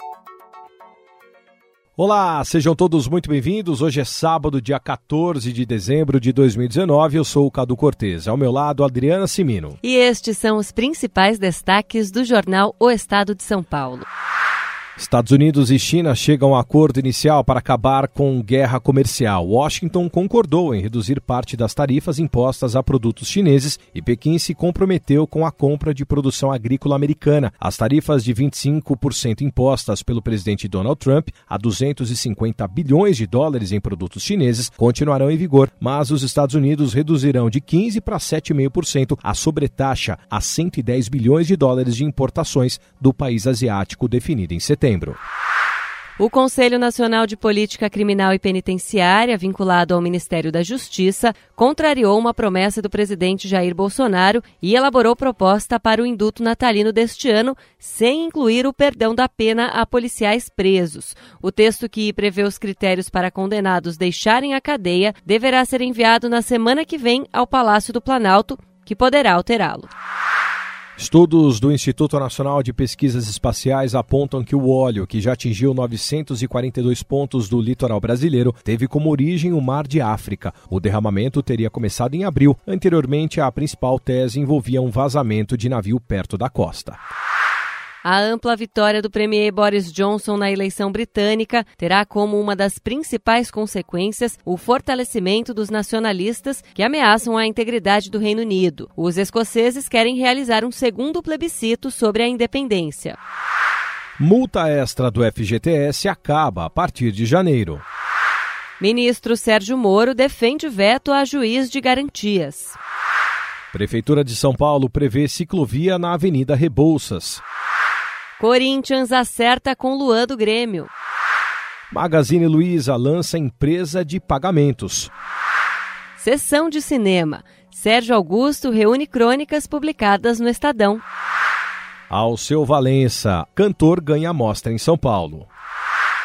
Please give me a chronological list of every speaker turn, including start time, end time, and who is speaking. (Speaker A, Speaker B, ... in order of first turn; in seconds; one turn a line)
Speaker A: 2.0-9.8
Speaker B: 9.8-14.1
Speaker A: 15.0-45.2
Speaker B: 46.2-69.9
Speaker A: 71.0-87.0
Speaker B: 88.0-103.2
Speaker A: 104.2-107.8
Speaker B: 108.8-112.8
Speaker A: 113.7-117.4
Speaker B: 118.4-120.9
Speaker A: 121.9-125.1
Speaker B: 126.2-131.0
Speaker A: 132.1-135.5